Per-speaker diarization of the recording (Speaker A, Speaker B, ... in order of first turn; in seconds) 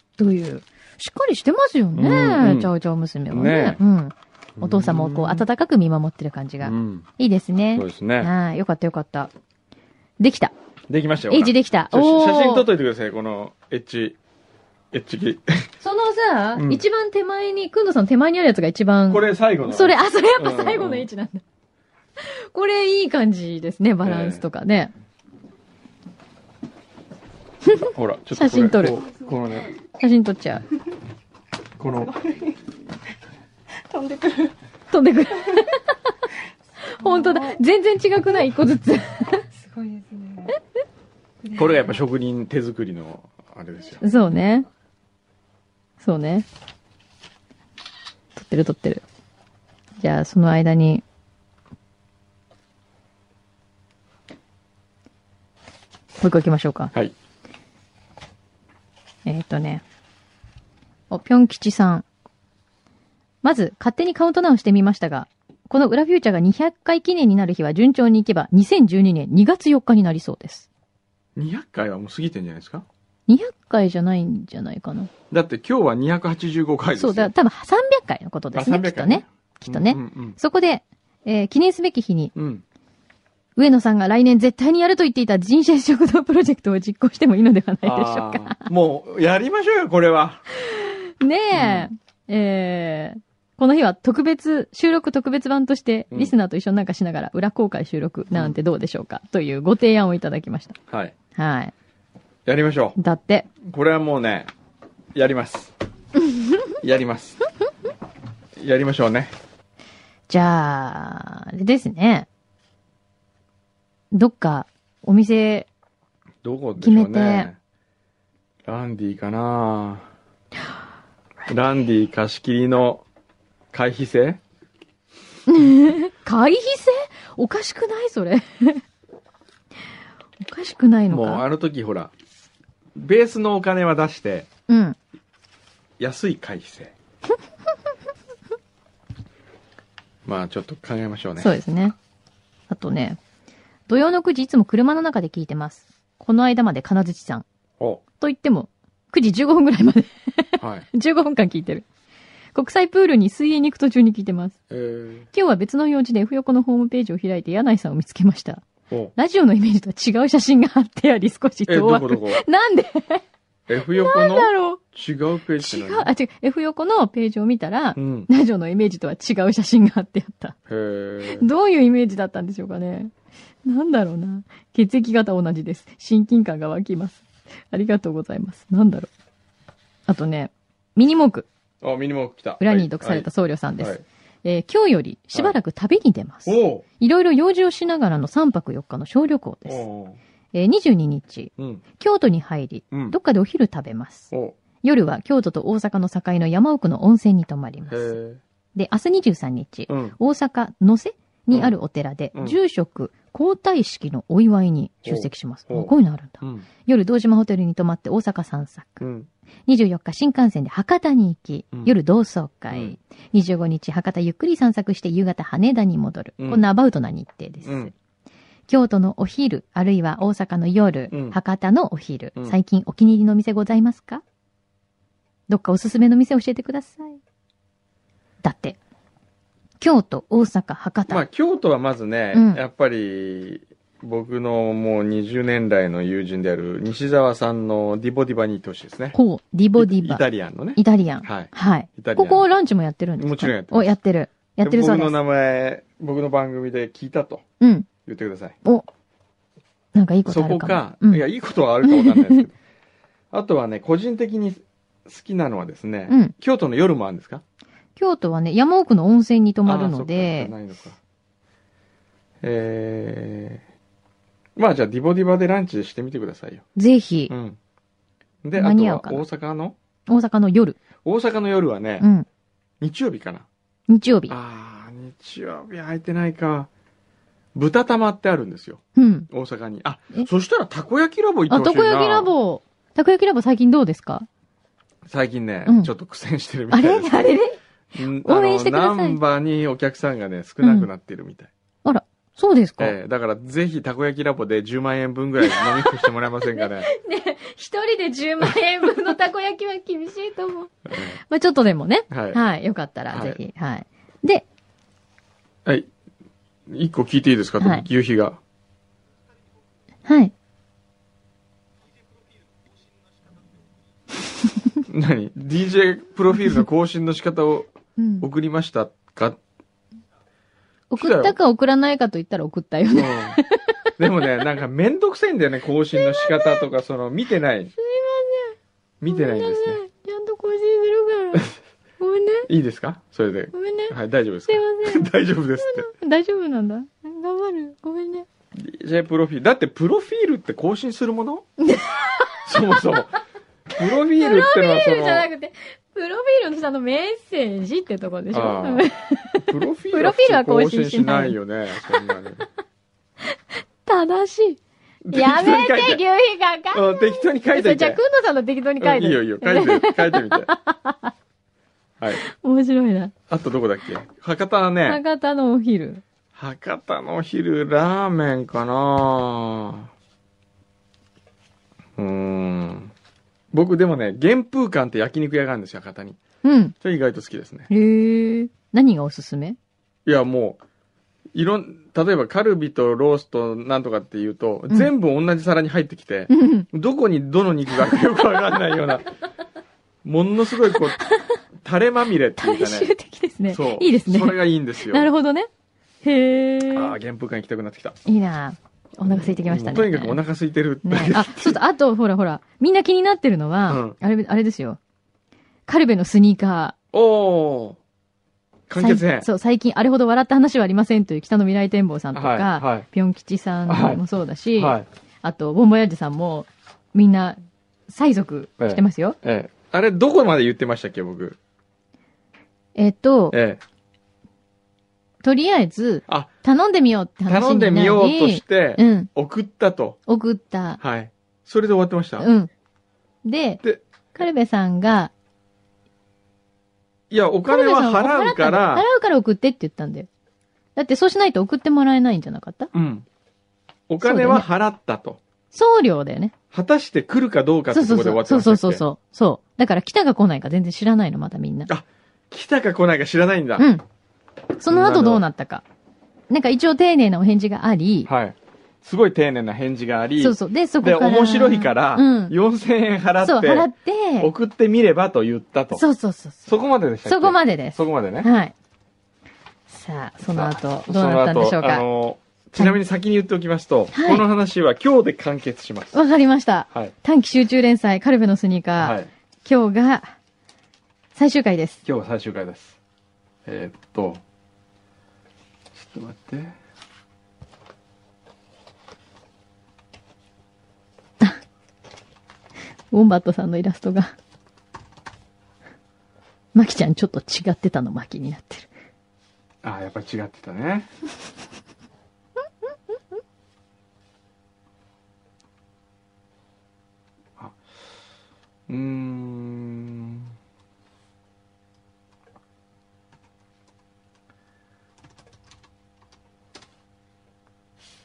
Speaker A: 0.2-9.3, 10.2-10.5, 11.3-12.7, 15.8-21.4, 22.2-24.9, 27.7-29.0, 30.0-30.6, 34.9-35.8, 36.9-39.4, 44.0-44.6, 46.0-46.4, 48.4-49.0, 50.0-51.0, 56.2-56.9, 59.2-59.8, 61.1-62.0, 63.4-70.7, 73.3-75.1, 77.0-82.3, 83.5-88.7, 90.5-100.8, 101.3-101.7, 103.0-103.5, 110.3-112.3, 114.1-115.7, 116.8-117.5, 125.5-128.8, 130.4-131.4, 134.7-135.0, 141.4-141.9, 142.7-143.2, 143.9-147.4, 148.2-151.8, 152.5-154.6, 155.3-158.6, 159.2-163.2, 163.8-164.8, 165.6-170.6, 171.3-173.1, 173.6-179.1, 180.1-181.5, 182.6-189.8, 190.5-198.1, 198.7-209.0, 209.7-217.9, 218.7-224.2, 225.5-227.2, 228.4-228.8, 229.8-231.2, 232.3-232.6, 239.1-240.2, 240.8-245.2, 247.6-247.9, 249.9-251.2, 251.8-252.4, 256.1-256.3, 258.0-260.5, 266.8-267.3, 268.6-269.2, 270.1-270.8, 272.0-272.2, 273.9-274.3, 278.9-279.3, 281.5-284.3, 285.6-285.9, 286.7-287.6, 288.2-289.2, 290.6-290.9, 291.8-292.9, 295.4-304.4, 310.1-310.3, 318.0-318.3, 320.9-324.3, 326.0-326.6, 327.8-328.6, 329.1-332.5, 333.5-333.9, 334.5-338.3, 341.6-342.8, 343.8-351.4, 353.3-361.1, 362.1-363.1, 364.8-366.0, 376.4-376.7, 377.7-379.6, 386.3-386.7, 390.7-391.3, 392.4-395.5, 396.0-396.9, 398.1-400.2, 400.8-404.8, 405.7-406.7, 408.8-419.2, 422.8-423.4, 425.2-429.1, 430.1-430.8, 432.2-432.5, 433.2-433.6, 434.1-435.1, 437.5-440.1, 440.8-442.7, 444.0-444.4, 445.5-446.3, 447.7-451.7, 453.6-453.8, 454.6-455.6, 456.3-458.1, 460.2-462.3, 463.2-464.3, 465.7-466.5, 467.1-468.5, 469.7-471.8, 473.9-474.2, 475.9-480.1, 481.1-481.8, 492.9-494.1, 496.5-498.7
Speaker B: 1.9-2.7, 3.3-3.8, 4.6-5.5, 6.6-7.1, 7.7-8.3, 10.9-14.2, 14.9-15.7, 16.6-16.8, 19.1-21.1, 24.0-24.4, 27.9-29.7, 31.8-32.1, 41.5-44.0, 71.3-72.8, 75.3-77.3, 78.5-80.4, 82.3-82.6, 87.8-90.4, 91.5-91.9, 100.9-101.1, 102.5-103.0, 103.6-104.5, 105.1-105.7, 106.8-107.4, 108.6-109.3, 116.4-117.6, 118.6-120.0, 121.5-123.0, 123.7-124.4, 131.1-132.1, 132.9-134.5, 136.0-136.9, 140.2-141.5, 150.6-150.9, 154.7-155.3, 161.7-162.4, 163.7-166.1, 167.9-168.3, 170.7-171.5, 181.8-183.3, 183.8-184.0, 186.4-186.8, 189.7-190.2, 191.6-191.8, 194.3-194.6, 197.9-198.4, 199.9-200.2, 205.0-206.7, 209.0-209.3, 217.6-217.9, 221.1-221.4, 231.1-239.2, 239.8-242.4, 243.2-243.9, 244.6-247.4, 248.1-248.6, 250.2-252.6, 253.3-257.4, 259.6-261.0, 262.4-263.6, 264.6-266.6, 267.3-267.6, 268.4-269.8, 271.0-272.0, 272.8-273.4, 274.3-276.7, 277.5-282.3, 285.1-287.4, 287.9-291.5, 292.8-296.9, 300.9-301.2, 302.1-302.4, 303.1-303.4, 305.6-305.9, 306.7-308.4, 314.9-317.7, 318.2-319.4, 321.0-321.4, 322.9-323.4, 324.0-327.7, 329.0-329.8, 332.5-335.9, 338.5-341.4, 342.4-343.2, 343.7-345.3, 348.3-348.9, 349.4-352.4, 355.0-356.0, 356.7-358.0, 358.8-360.5, 363.3-365.0, 366.4-369.9, 372.0-372.9, 373.5-376.2, 376.8-377.7, 380.0-380.6, 381.3-389.1, 390.0-391.0, 391.6-392.9, 393.5-395.1, 396.7-398.0, 399.1-401.6, 403.7-403.9, 406.9-407.8, 408.7-409.3, 412.1-412.9, 413.7-414.0, 414.6-414.9, 418.6-421.4, 423.3-423.6, 427.3-430.0, 430.8-432.3, 433.6-434.2, 437.1-438.9, 442.7-443.1, 443.9-445.2, 446.5-448.8, 451.7-453.7, 454.7-455.2, 458.1-463.7, 464.2-465.8, 466.4-468.3, 470.2-476.0, 478.8-479.1, 481.8-482.8, 483.4-484.2, 485.7-486.6, 499.6-500.9, 508.7-510.3
Speaker C: 28.8-29.7, 31.9-32.6, 33.9-34.5, 37.0-37.6, 39.5-40.6, 41.4-42.0